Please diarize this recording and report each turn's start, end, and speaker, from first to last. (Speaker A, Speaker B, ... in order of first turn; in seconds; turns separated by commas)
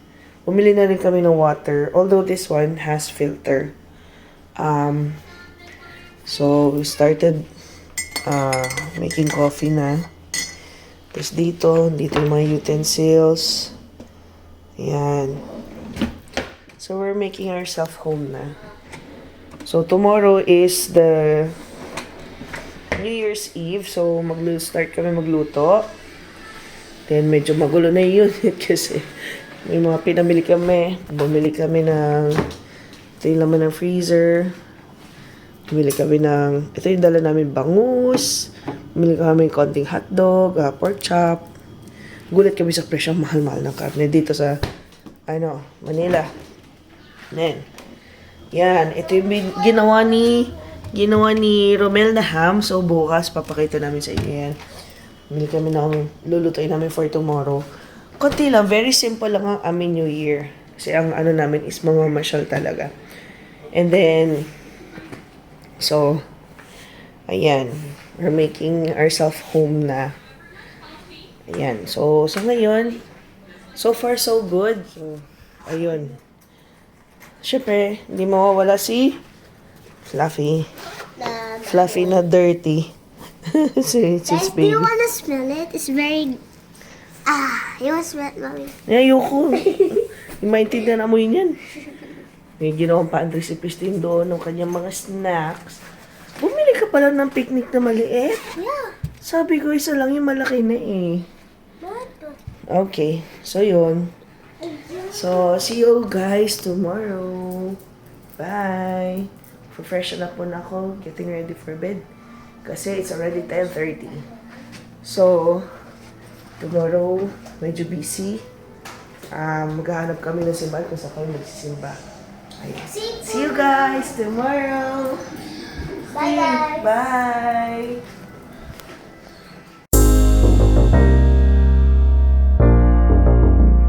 Speaker A: 0.4-3.7, Speaker A: 4.6-5.2, Speaker A: 6.2-7.4, Speaker A: 8.2-10.1, Speaker A: 11.1-13.7, Speaker A: 14.8-15.4, Speaker A: 16.8-18.6, Speaker A: 19.6-21.5, Speaker A: 22.9-25.9, Speaker A: 27.1-32.4, Speaker A: 33.2-34.5, Speaker A: 35.7-41.5, Speaker A: 42.3-44.6, Speaker A: 45.3-46.3, Speaker A: 47.3-47.6, Speaker A: 48.5-54.6, Speaker A: 55.3-57.6, Speaker A: 58.2-62.9, Speaker A: 63.7-64.5, Speaker A: 65.8-66.2, Speaker A: 67.3-70.2, Speaker A: 71.5-73.0, Speaker A: 73.7-76.2, Speaker A: 77.4-79.2, Speaker A: 80.0-80.7, Speaker B: 81.2-82.2, Speaker A: 81.6-82.9, Speaker A: 83.5-84.9, Speaker B: 84.3-86.4, Speaker B: 87.2-88.8, Speaker A: 88.9-91.6, Speaker A: 92.6-95.8, Speaker A: 96.4-98.5, Speaker B: 98.5-99.0, Speaker A: 99.2-101.2, Speaker B: 101.8-102.4, Speaker A: 102.7-104.1, Speaker B: 104.6-105.6, Speaker A: 105.1-107.8, Speaker A: 108.4-112.0, Speaker A: 112.6-114.2, Speaker B: 113.5-114.1, Speaker A: 115.0-115.7, Speaker A: 116.6-118.4, Speaker A: 119.3-122.0, Speaker A: 122.6-125.2, Speaker B: 122.8-124.1, Speaker B: 126.1-126.9, Speaker A: 126.1-128.0